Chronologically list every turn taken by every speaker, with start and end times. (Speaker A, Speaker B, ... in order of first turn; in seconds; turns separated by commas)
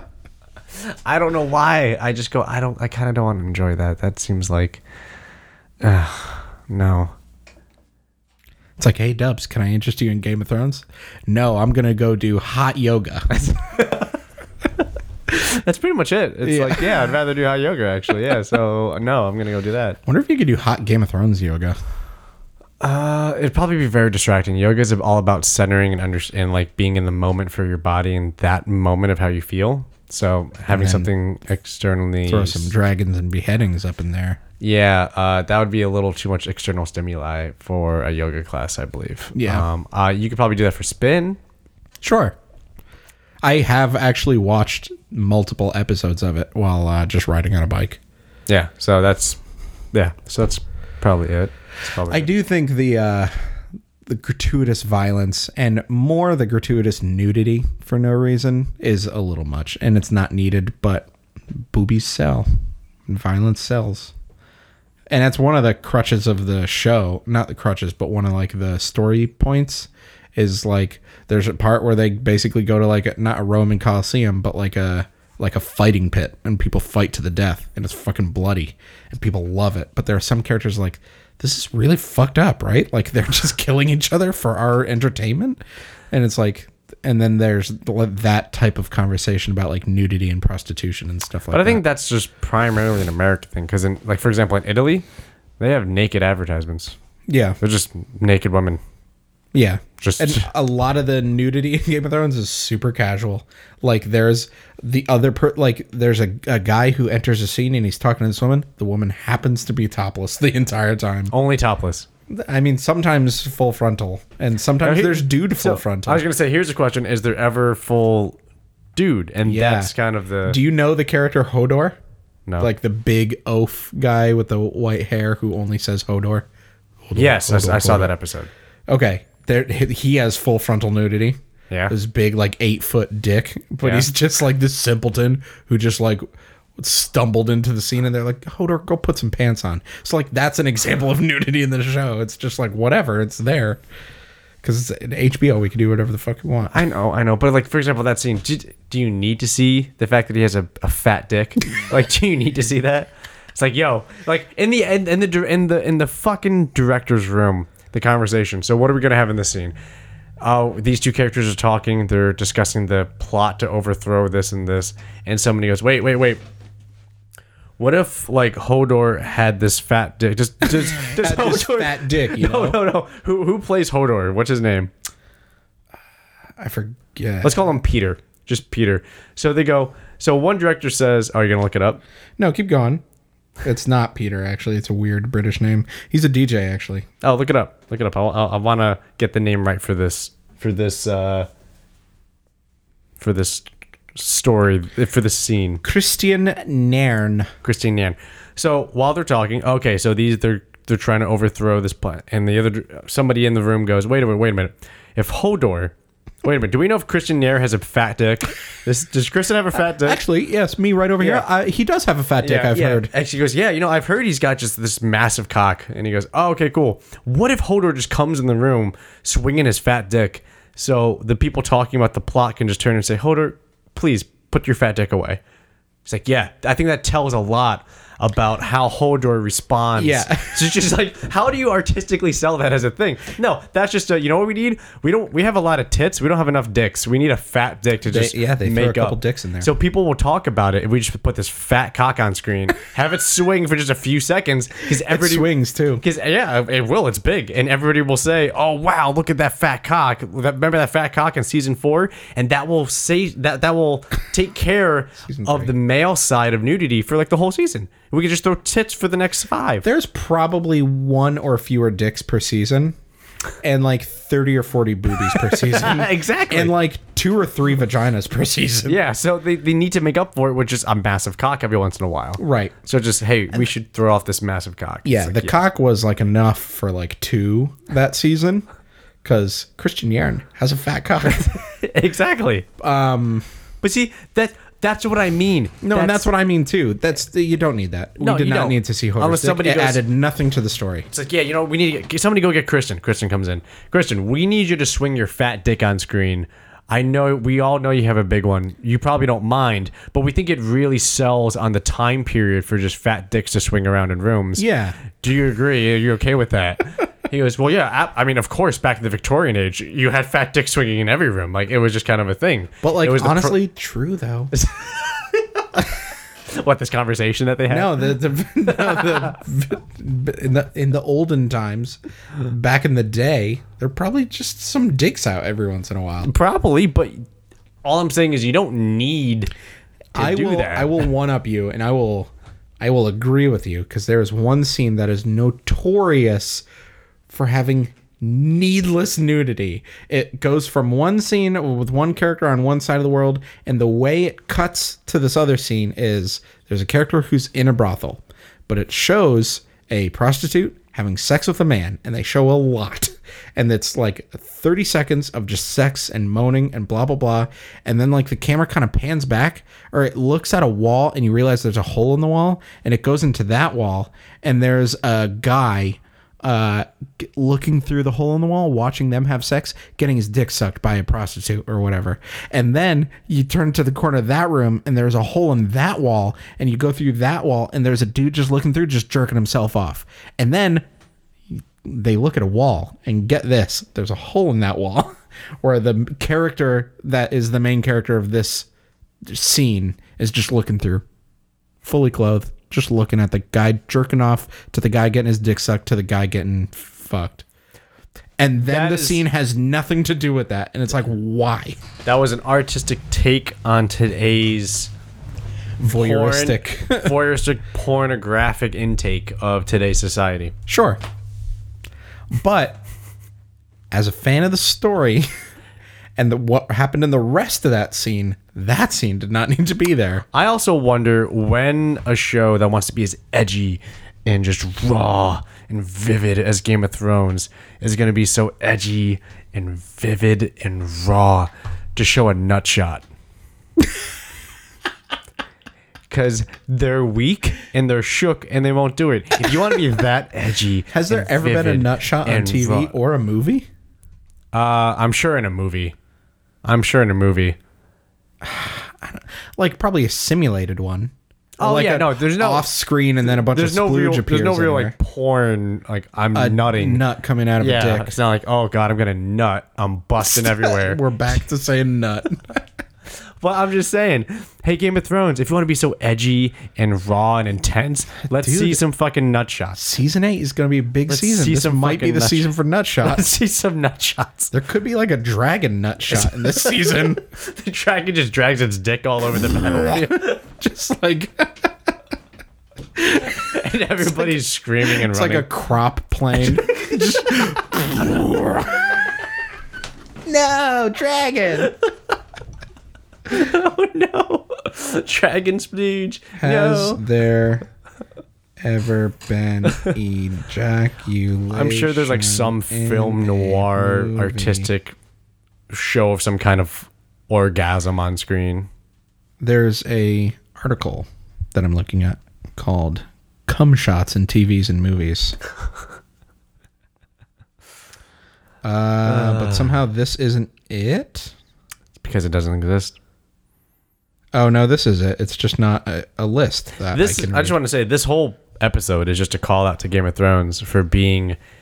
Speaker A: 0.9-4.8, Speaker A: 5.8-7.1, Speaker B: 8.8-13.3, Speaker A: 13.3-14.1, Speaker A: 15.3-20.0, Speaker B: 16.4-17.1, Speaker B: 20.1-21.8, Speaker A: 22.8-32.7, Speaker B: 30.7-31.1, Speaker B: 32.3-34.4, Speaker A: 34.6-41.4, Speaker B: 39.4-39.7, Speaker B: 42.0-42.4, Speaker B: 43.4-48.0, Speaker A: 48.5-49.4, Speaker A: 49.9-52.3, Speaker B: 52.1-53.5, Speaker B: 54.1-62.5, Speaker B: 63.1-64.1, Speaker B: 65.1-85.6, Speaker B: 86.1-91.8, Speaker A: 91.5-95.0, Speaker A: 95.6-97.0, Speaker B: 97.3-97.6, Speaker A: 97.6-98.8, Speaker B: 99.5-111.3, Speaker A: 100.0-100.5, Speaker A: 111.3-112.1, Speaker B: 112.3-116.2, Speaker A: 114.8-118.4, Speaker A: 119.0-120.6, Speaker B: 119.5-119.9, Speaker B: 120.5-122.0, Speaker B: 122.6-126.5, Speaker B: 127.0-128.1, Speaker A: 127.2-128.5, Speaker B: 128.9-131.4, Speaker A: 131.7-131.9, Speaker B: 131.9-136.2, Speaker A: 133.8-134.1, Speaker B: 136.8-143.8, Speaker B: 144.6-146.8, Speaker A: 146.7-159.7, Speaker A: 160.4-166.4, Speaker A: 167.8-174.9, Speaker B: 170.8-172.8, Speaker B: 176.6-177.7, Speaker A: 177.4-182.0, Speaker B: 182.4-183.0, Speaker B: 183.6-187.1, Speaker A: 187.2-191.5, Speaker A: 193.2-195.8, Speaker B: 195.8-197.5, Speaker A: 197.6-210.2, Speaker B: 209.9-213.1, Speaker A: 211.2-211.5, Speaker A: 212.4-225.4, Speaker A: 226.1-245.5, Speaker B: 230.0-230.7, Speaker B: 238.1-239.7, Speaker B: 245.1-246.0, Speaker A: 246.0-259.9, Speaker B: 255.3-255.7, Speaker B: 259.8-262.9, Speaker B: 263.6-269.0, Speaker A: 265.3-266.8, Speaker A: 268.9-275.6, Speaker B: 272.4-272.8, Speaker B: 275.1-278.7, Speaker B: 279.2-281.6, Speaker A: 281.4-282.7, Speaker B: 282.8-283.5, Speaker A: 283.8-286.3, Speaker B: 285.8-291.1, Speaker A: 288.2-290.0, Speaker A: 291.1-313.6, Speaker B: 304.6-305.0, Speaker B: 312.8-314.5, Speaker A: 314.5-318.1, Speaker B: 317.7-326.3, Speaker A: 318.7-319.3, Speaker A: 326.2-327.2, Speaker A: 327.8-329.5, Speaker B: 330.1-336.6, Speaker A: 330.1-331.1, Speaker B: 337.3-380.9, Speaker B: 381.8-388.7, Speaker B: 389.3-391.1, Speaker B: 391.8-397.4, Speaker B: 398.4-401.8, Speaker A: 398.6-399.2, Speaker A: 402.1-404.9, Speaker B: 405.8-407.1, Speaker A: 405.9-410.5, Speaker B: 410.7-411.0, Speaker B: 412.3-412.8, Speaker B: 413.9-415.3, Speaker B: 416.2-420.2, Speaker A: 420.3-433.1, Speaker A: 436.1-442.9, Speaker B: 440.9-443.7, Speaker A: 444.5-445.9, Speaker A: 446.6-447.6, Speaker B: 448.4-454.9, Speaker A: 451.6-452.7, Speaker A: 453.2-457.0, Speaker B: 456.3-458.1, Speaker A: 457.6-461.0, Speaker B: 460.2-462.6, Speaker A: 463.4-469.8, Speaker B: 468.3-468.8, Speaker B: 469.8-473.2, Speaker A: 471.1-472.5, Speaker A: 473.0-474.5, Speaker B: 474.5-477.2, Speaker A: 476.1-480.4, Speaker B: 479.6-481.7, Speaker B: 483.0-489.2, Speaker A: 483.2-485.5, Speaker B: 490.2-491.7, Speaker A: 493.3-497.0, Speaker B: 496.4-497.6, Speaker B: 498.6-504.7, Speaker A: 499.7-499.9, Speaker A: 501.5-505.0, Speaker A: 505.7-508.7, Speaker B: 509.4-515.4, Speaker B: 518.6-521.3, Speaker A: 519.0-519.8, Speaker A: 522.0-523.0, Speaker B: 524.3-527.6, Speaker A: 526.9-531.4